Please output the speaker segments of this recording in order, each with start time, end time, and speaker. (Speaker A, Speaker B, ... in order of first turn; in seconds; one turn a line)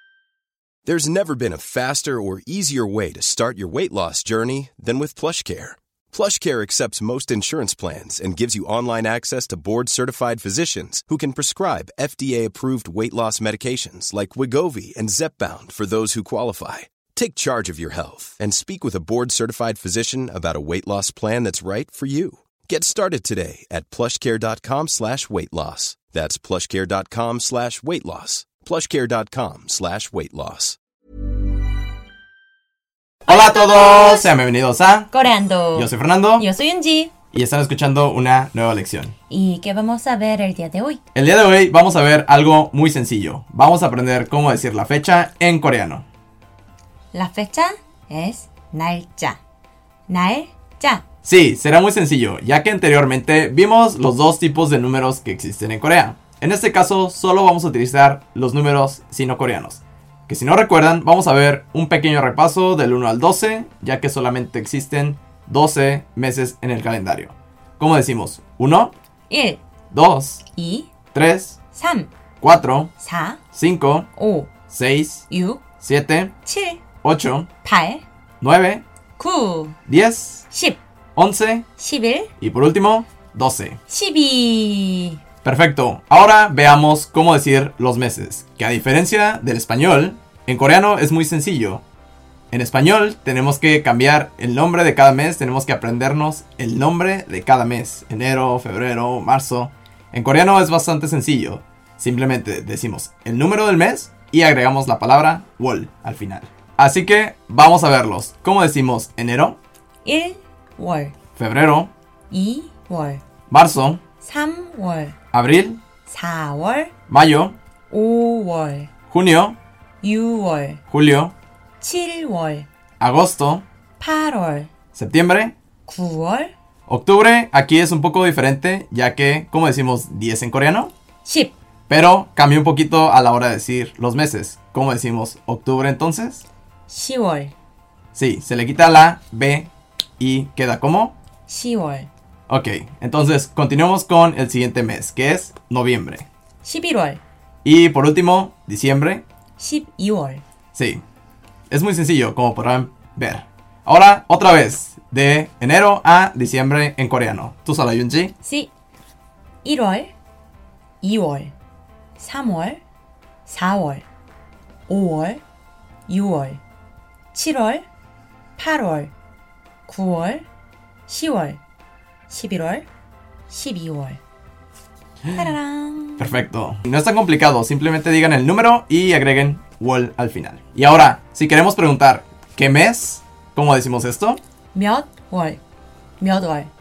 Speaker A: 0.9-30.8
Speaker B: 33.3-35.1
Speaker C: 33.3-34.3
Speaker C: 35.1-37.1
Speaker B: 35.7-36.5
Speaker B: 37.3-39.1
Speaker C: 39.3-41.0
Speaker B: 41.1-46.0
Speaker C: 47.1-49.4
Speaker C: 50.1-51.0
Speaker B: 51.2-68.9
Speaker C: 69.3-69.6
Speaker B: 69.9-70.4
Speaker C: 70.5-70.9
Speaker B: 71.1-71.6
Speaker C: 71.7-72.1
Speaker B: 72.4-72.9
Speaker C: 73.0-73.4
Speaker B: 73.5-74.1
Speaker C: 74.2-74.5
Speaker B: 74.7-75.3
Speaker C: 75.3-75.6
Speaker B: 75.8-76.3
Speaker C: 76.4-76.8
Speaker B: 77.0-77.5
Speaker C: 77.6-78.0
Speaker B: 78.4-78.8
Speaker C: 79.2-79.8
Speaker B: 79.9-80.5
Speaker C: 80.5-80.8
Speaker B: 81.2-81.7
Speaker C: 81.8-82.3
Speaker B: 82.4-83.8
Speaker C: 83.9-85.2
Speaker B: 85.4-91.8
Speaker B: 92.5-109.6
Speaker C: 110.0-111.2
Speaker B: 111.3-111.9
Speaker C: 112.3-113.2
Speaker B: 113.5-114.0
Speaker C: 114.2-115.2
Speaker B: 115.3-115.8
Speaker C: 116.1-116.9
Speaker B: 117.1-117.6
Speaker C: 117.9-118.9
Speaker B: 119.1-119.6
Speaker C: 120.0-120.8
Speaker B: 120.9-121.3
Speaker C: 121.8-122.7
Speaker B: 123.0-123.7
Speaker C: 124.0-124.7
Speaker B: 124.9-125.5
Speaker C: 125.9-126.5
Speaker B: 126.9-130.9
Speaker C: 131.2-131.6
Speaker B: 131.9-136.5
Speaker C: 136.9-137.5
Speaker B: 138.1-141.2
Speaker C: 141.5-142.1
Speaker B: 142.5-146.3
Speaker C: 146.6-147.2
Speaker B: 147.7-149.2
Speaker C: 149.6-150.4
Speaker B: 150.8-151.0
Speaker B: 151.7-158.4
Speaker C: 158.4-158.7
Speaker C: 159.6-160.1
Speaker C: 161.0-161.5
Speaker C: 162.2-162.8
Speaker C: 163.5-164.1
Speaker C: 164.9-165.4
Speaker C: 166.1-166.6
Speaker C: 167.3-167.9
Speaker C: 168.6-169.1
Speaker C: 169.9-170.4
Speaker C: 171.1-171.6
Speaker C: 172.3-172.9
Speaker C: 173.5-174.2
Speaker C: 175.3-176.4
Speaker B: 176.2-184.4
Speaker C: 184.7-185.6
Speaker C: 186.2-186.7